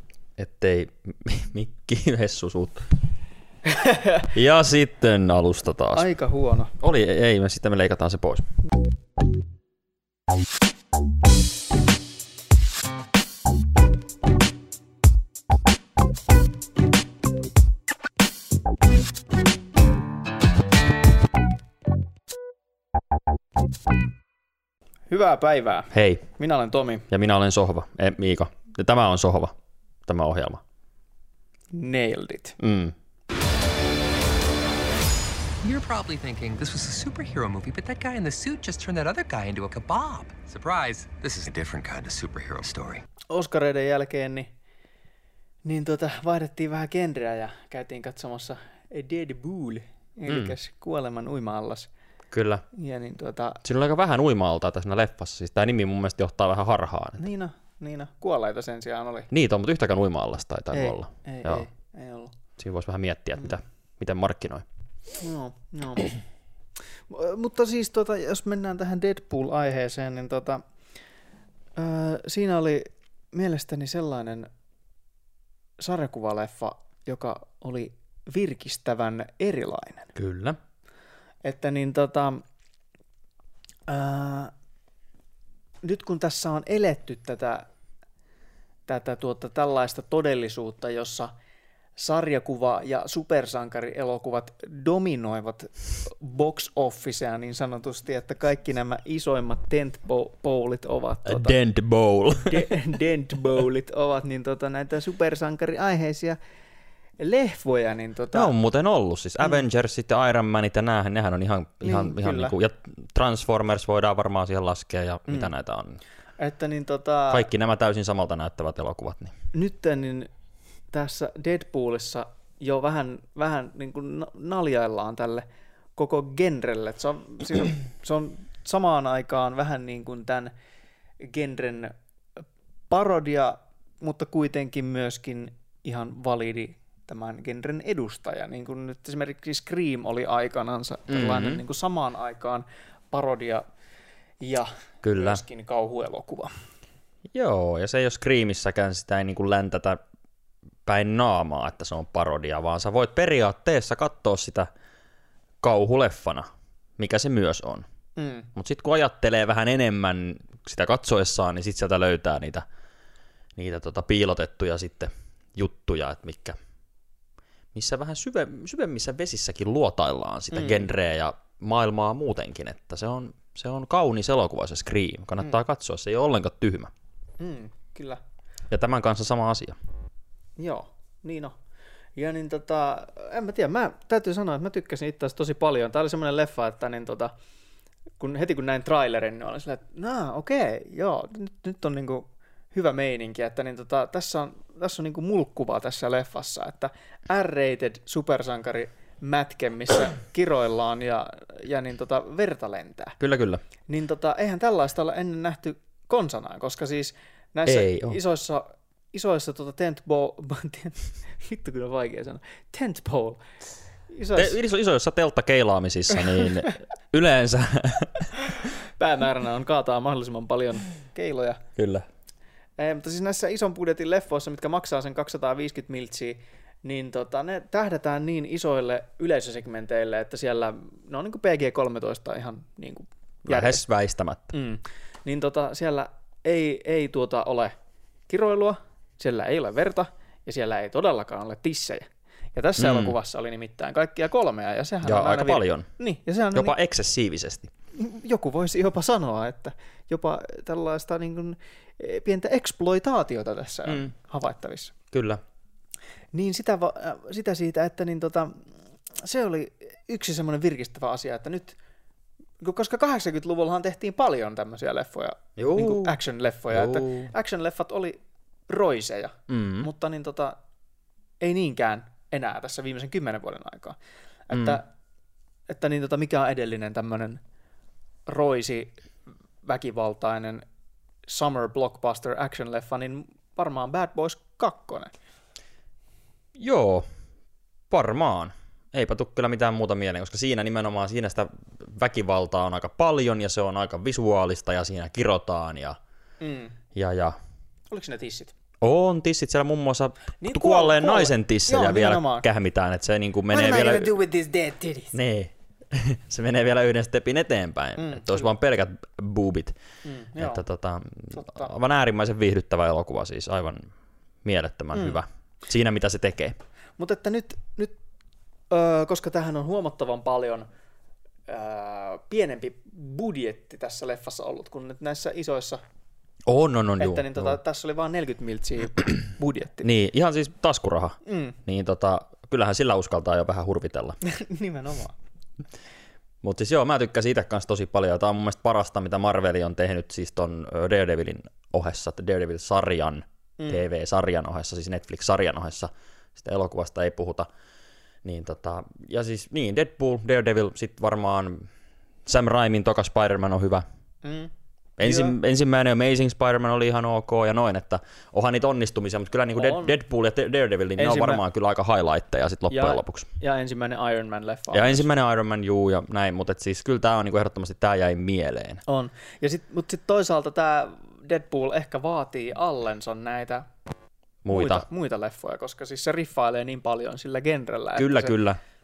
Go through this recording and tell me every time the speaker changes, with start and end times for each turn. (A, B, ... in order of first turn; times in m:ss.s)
0:00.4-0:02.9 A
0:03.7-0:04.3 B
0:04.3-0:06.1 A
0:06.0-0:06.7 B
0:06.8-0:08.4 A
0:25.1-0:27.1 B
0:25.9-0:26.2 A
0:27.1-0:29.6 A
0:30.1-0:30.6 A
0:31.7-0:32.6 B
0:32.6-0:33.0 A
0:35.6-0:43.0 C
0:43.3-0:44.5 B
0:45.6-0:51.9 B
0:50.3-0:50.6 A
0:52.3-0:52.6 A
0:52.7-0:53.6 B
0:53.6-0:57.2 A
0:57.2-0:59.3 B
0:59.3-1:01.6 A
1:00.7-1:02.3 B
1:02.6-1:04.6 A
1:05.2-1:06.2 B
1:07.1-1:10.6 B
1:11.8-1:14.5 B
1:15.8-1:20.1 B
1:20.2-1:20.6 A
1:21.4-1:22.4 B
1:23.9-1:24.5 B
1:25.8-1:27.6 B
1:28.9-1:31.3 B
1:32.0-1:41.6 B
1:41.2-1:42.7 A
1:42.5-1:46.4 B
1:47.2-1:48.5 B
1:48.3-1:56.0 A
1:51.8-1:52.6 B
1:56.4-1:57.5 B
1:57.3-1:59.3 A
1:59.5-2:00.3 B
2:00.9-2:10.5 B
2:11.2-2:11.9 B
2:12.9-2:23.6 B
2:21.1-2:21.6 A
2:24.4-2:26.5 B
2:25.0-2:25.4 A
2:27.3-2:30.0 A
2:30.9-2:34.7 A
2:35.6-2:36.5 A
2:37.0-2:37.8 A
2:38.2-2:38.5 B
2:38.5-2:42.6 A
2:43.6-2:46.6 A
2:47.7-2:56.9 A
2:50.5-2:50.9 B
2:57.4-2:58.2 B
2:58.7-2:59.8 A
3:00.6-3:01.6 B
3:02.2-3:07.3 B
3:08.2-3:23.2 B
3:23.2-3:23.6 A
3:23.9-3:33.4 B
3:27.7-3:28.2 A
3:34.1-3:34.6 B
3:34.4-3:38.3 A
3:38.4-3:41.6 B
3:41.8-3:42.0 A
3:42.8-3:53.8 B
3:53.5-3:54.5 A
3:54.5-3:57.8 B
3:58.3-4:06.8 B
4:02.8-4:03.2 A
4:05.0-4:05.9 A
4:06.6-4:07.7 A
4:08.0-4:14.9 B
4:15.1-4:15.4 A
4:16.3-4:18.6 B
4:19.2-4:21.8 B
4:22.6-4:28.2 B
4:25.6-4:26.2 A
4:26.7-4:27.3 A
4:28.7-4:30.6 B
4:29.5-4:29.9 A
4:31.4-4:34.0 B
4:34.5-4:34.9 B
4:34.5-4:34.8 A
4:35.7-4:37.4 B
4:38.3-4:39.0 B
4:39.6-4:40.6 B
4:41.3-4:45.1 B
4:46.6-4:47.1 A
4:47.9-4:56.0 A
4:56.4-4:56.8 B
4:56.9-4:57.4 A
4:57.9-4:58.5 B
4:58.8-5:04.2 A
5:00.4-5:02.5 B
5:03.5-5:05.2 B
5:05.1-5:09.8 A
5:08.0-5:08.5 B
5:10.0-5:10.6 B
5:10.4-5:13.9 A
5:11.3-5:11.7 B
5:14.4-5:16.6 A
5:14.9-5:15.2 B
5:17.0-5:18.0 B
5:18.7-5:20.7 B
5:21.5-5:25.8 B
5:26.5-5:27.6 A
5:27.0-5:29.9 B
5:29.8-5:34.2 A
5:31.2-5:31.6 B
5:34.2-5:35.2 B
5:36.4-5:47.5 A
5:43.6-5:43.8 B
5:48.2-5:51.7 A
5:52.3-5:53.8 A
5:54.2-5:55.4 B
5:55.0-6:03.3 A
5:59.6-5:59.9 B
6:01.0-6:01.4 B
6:02.7-6:05.1 B
6:04.7-6:08.8 A
6:08.9-6:13.7 B
6:14.4-6:14.9 A
6:14.5-6:18.4 B
6:18.0-6:18.6 A